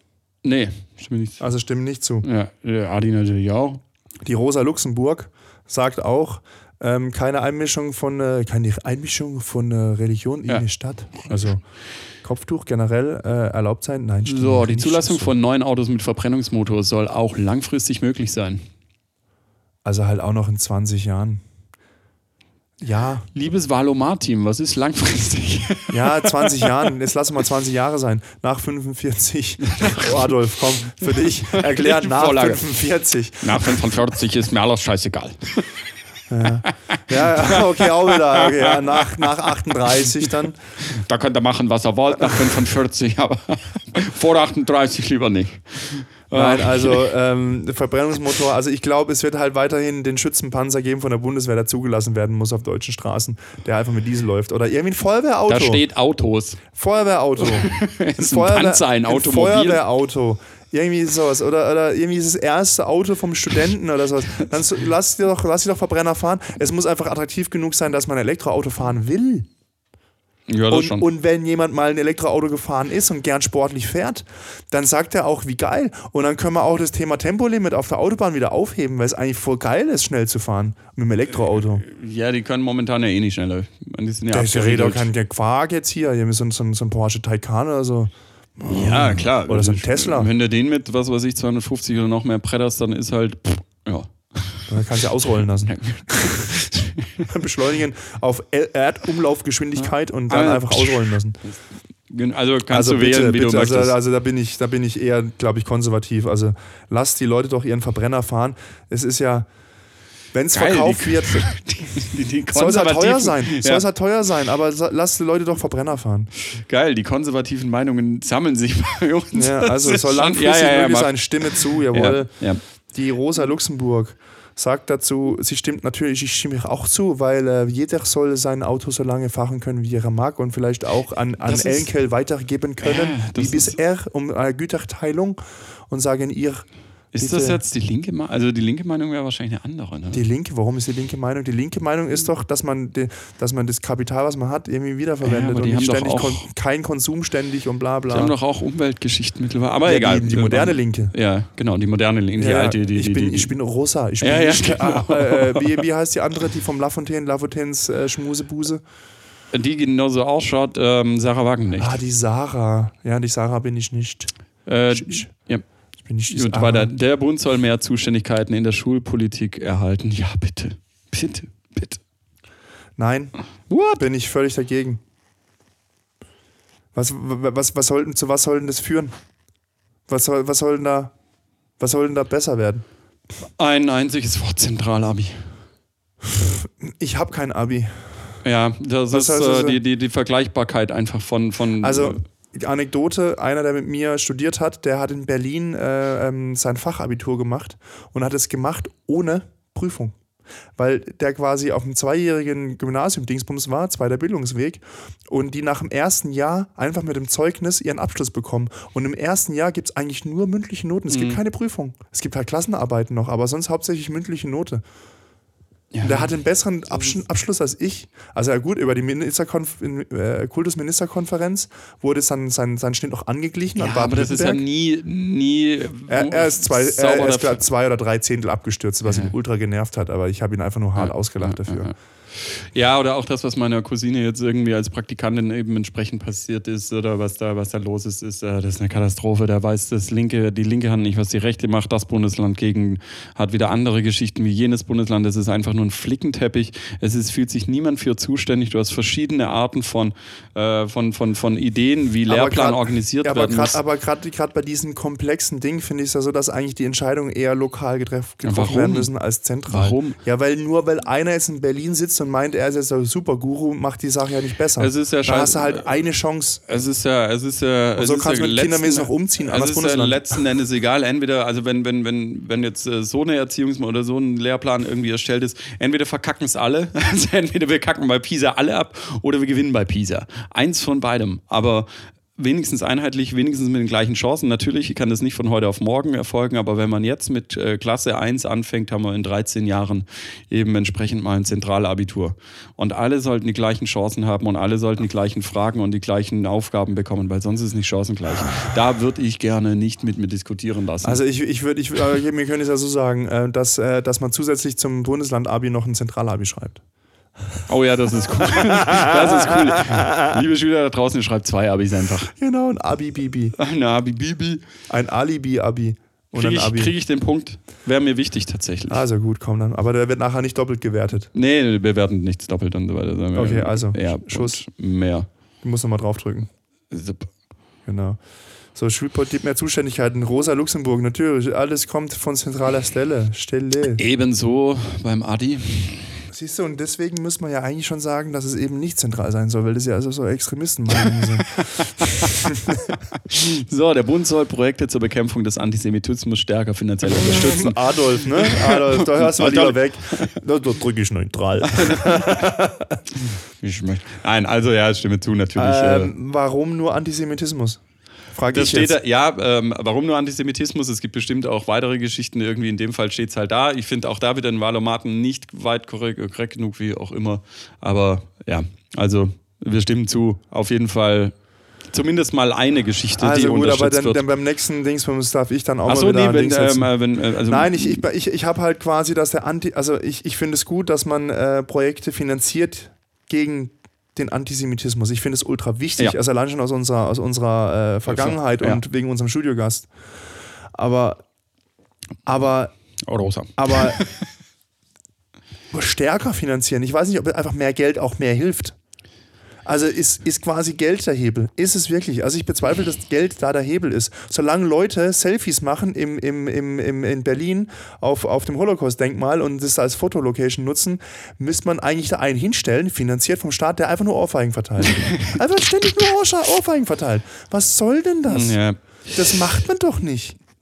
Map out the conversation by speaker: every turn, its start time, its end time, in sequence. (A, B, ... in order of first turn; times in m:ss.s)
0:00.4-0:01.4 A
0:01.4-0:02.2 B
0:02.2-0:03.8 A
0:04.2-0:11.6 B
0:12.2-0:15.3 B
0:14.2-0:18.6 A
0:19.8-0:21.4 B
0:22.8-0:23.3 B
0:23.3-0:26.7 A
0:25.9-0:33.9 B
0:29.6-0:30.3 A
0:31.0-0:32.6 A
0:33.4-0:35.8 A
0:36.3-0:40.6 B
0:36.5-0:39.2 A
0:40.8-0:47.1 A
0:42.2-0:42.6 B
0:46.3-0:55.8 B
0:55.5-0:56.6 A
0:56.7-1:09.5 B
0:57.4-0:59.8 A
1:10.5-1:11.0 A
1:10.7-1:21.8 B
1:21.8-1:25.1 A
1:24.3-1:30.3 B
1:28.6-1:34.8 A
1:34.7-1:36.5 B
1:35.6-1:37.3 A
1:37.2-1:41.4 B
1:39.8-1:41.6 A
1:42.1-1:44.0 A
1:42.7-1:49.5 B
1:50.3-1:51.5 B
1:50.5-1:53.8 A
1:52.5-1:56.3 B
1:56.6-2:02.6 A
1:59.3-2:02.3 B
2:02.9-2:17.6 B
2:11.4-2:11.9 A
2:12.8-2:13.8 A
2:17.1-2:20.2 A
2:20.1-2:28.3 B
2:25.2-2:26.5 A
2:28.1-2:33.5 A
2:29.8-2:31.1 B
2:32.4-2:38.8 B
2:34.2-2:35.8 A
2:39.5-2:42.0 A
2:41.8-2:44.3 B
2:44.6-2:45.6 A
2:44.9-2:45.3 B
2:46.0-2:46.9 B
2:46.3-2:52.0 A
2:53.0-2:53.3 B
2:53.7-2:54.0 A
2:53.8-2:55.0 B
2:56.9-2:59.1 B
3:00.1-3:01.1 B
3:01.8-3:02.8 B
3:03.6-3:05.5 A
3:06.3-3:08.1 B
3:08.4-3:12.2 A
3:09.1-3:09.8 B
3:11.8-3:20.2 B
3:20.8-3:34.8 B
3:31.1-3:31.4 A
3:35.9-3:36.3 A
3:36.0-3:44.6 B
3:43.8-3:47.6 A
3:46.1-3:51.9 B
3:49.1-3:49.3 A
3:51.0-4:13.8 A
4:12.3-4:26.6 B
4:18.4-4:19.1 A
4:19.7-4:20.2 A
4:24.8-4:25.8 A
4:26.7-5:01.2 A
4:28.0-4:30.4 B
5:01.0-5:06.8 B
5:07.7-5:12.3 A
5:08.4-5:10.3 B
5:12.4-5:13.5 B
5:13.6-5:14.6 A
5:14.9-5:16.9 B
5:16.3-5:19.0 A
5:18.9-5:21.3 B
5:21.3-5:25.3 A
5:23.3-5:24.6 B
5:25.6-5:26.5 B
5:26.9-5:27.3 A
5:27.8-5:28.2 B
5:28.7-5:34.0 B
5:34.0-5:36.2 A
5:36.3-5:42.9 B
5:41.8-5:42.5 A
5:43.1-5:50.3 A
5:47.0-5:53.0 B
5:51.7-5:52.2 A
5:53.2-5:56.1 A
5:55.6-5:57.8 B
5:58.3-5:59.0 B
5:58.5-6:11.3 A
6:11.9-6:14.3 A
6:13.2-6:16.9 B
6:15.8-6:18.0 A
6:17.4-6:29.9 B
6:28.1-6:28.8 A
6:30.7-6:31.2 B
6:32.2-6:32.7 B
6:33.1-6:34.1 A
6:33.6-6:34.0 B
6:35.7-6:38.8 B
6:39.6-6:58.6 B
6:54.9-6:55.4 A
6:58.3-6:59.4 A
6:59.1-7:00.4 B